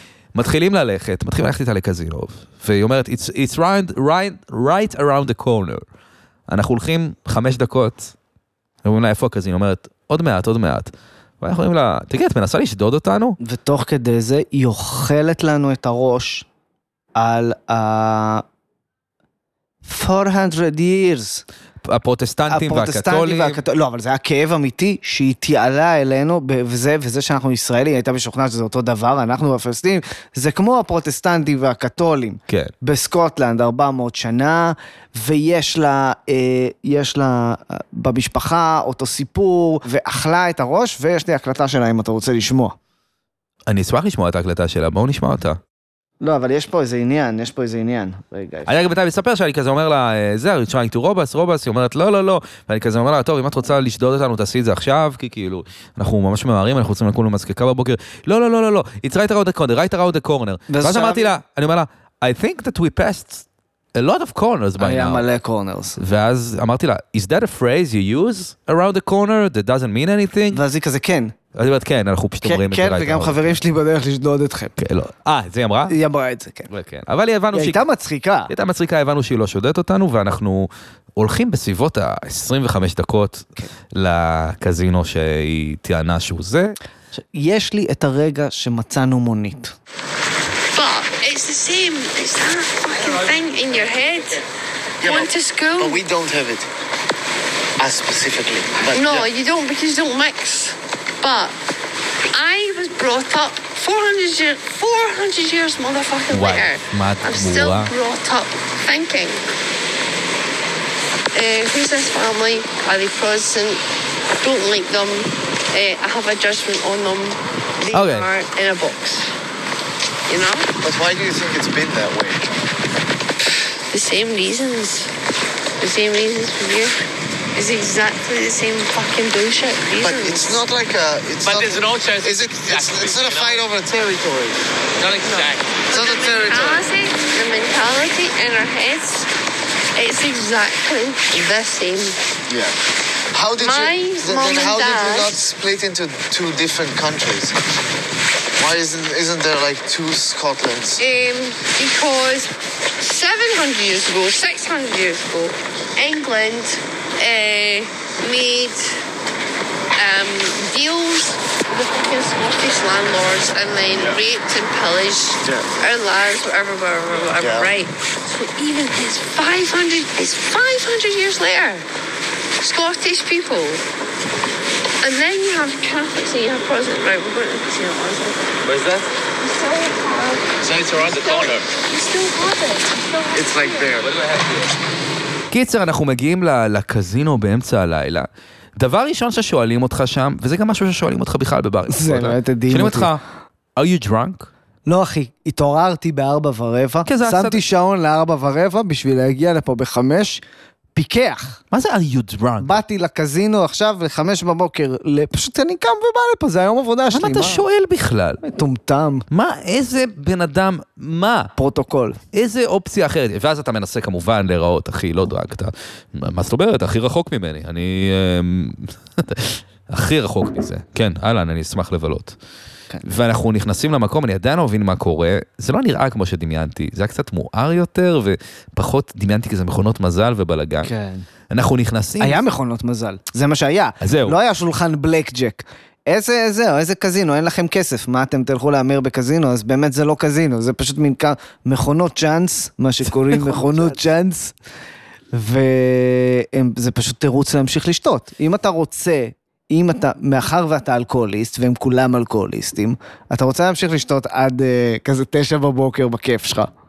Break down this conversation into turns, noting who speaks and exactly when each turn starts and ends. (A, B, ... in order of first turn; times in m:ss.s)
0:00.3-0:05.8 A
0:06.5-0:08.1 A
0:08.8-0:13.4 A
0:13.4-0:16.5 B
0:17.2-0:18.4 B
0:19.8-0:21.4 B
0:21.8-0:23.6 A
0:22.5-0:42.8 B
0:43.7-0:45.6 A
0:46.2-0:48.7 B
0:48.7-1:05.2 A
1:00.7-1:01.3 B
1:04.8-1:06.0 B
1:06.0-1:10.6 A
1:10.5-1:11.4 B
1:11.5-1:13.6 A
1:12.4-1:14.8 B
1:14.8-1:15.9 A
1:15.9-1:16.7 B
1:16.7-1:17.8 A
1:17.5-1:18.5 B
1:18.5-1:26.8 A
1:27.2-1:29.7 B
1:30.7-1:34.4 C
1:35.0-1:36.0 C
1:35.0-1:36.7 D
1:37.8-1:39.3 D
1:38.9-1:41.5 C
1:42.3-1:49.4 C
1:46.3-1:47.9 A
1:51.3-1:53.8 C
1:54.4-1:59.3 C
1:57.9-1:58.3 A
2:00.3-2:00.7 C
2:00.8-2:02.5 D
2:03.9-2:05.1 C
2:05.8-2:07.0 C
2:07.6-2:10.6 C
2:10.0-2:14.6 D
2:11.4-2:13.6 E
2:15.0-2:15.8 E
2:15.0-2:19.3 C
2:15.9-2:16.9 D
2:20.0-2:22.2 C
2:22.5-2:22.8 D
2:23.3-2:27.6 D
2:23.6-2:25.3 C
2:28.6-2:31.0 D
2:31.0-2:39.0 C
2:40.0-2:51.8 C
2:47.4-2:47.7 D
2:52.6-2:53.8 C
2:55.0-2:58.6 C
2:58.7-2:59.0 E
2:59.4-3:03.9 C
3:00.6-3:00.9 D
3:00.7-3:01.6 E
3:03.3-3:04.2 D
3:05.5-3:13.2 A
3:11.9-3:13.1 B
3:13.8-3:14.5 A
3:14.9-3:20.4 B
3:17.1-3:17.6 A
3:21.0-3:21.6 B
3:21.7-3:22.8 A
3:22.6-3:27.6 B
3:27.1-3:28.4 A
3:28.4-3:29.3 B
3:29.3-3:31.5 A
3:31.6-3:32.2 B
3:32.3-3:42.4 A
3:43.0-3:50.9 A
3:50.8-3:51.2 B
3:51.5-3:52.4 A
3:52.2-4:04.5 B
3:54.0-3:54.4 A
4:03.1-4:04.0 A
4:05.3-4:16.7 B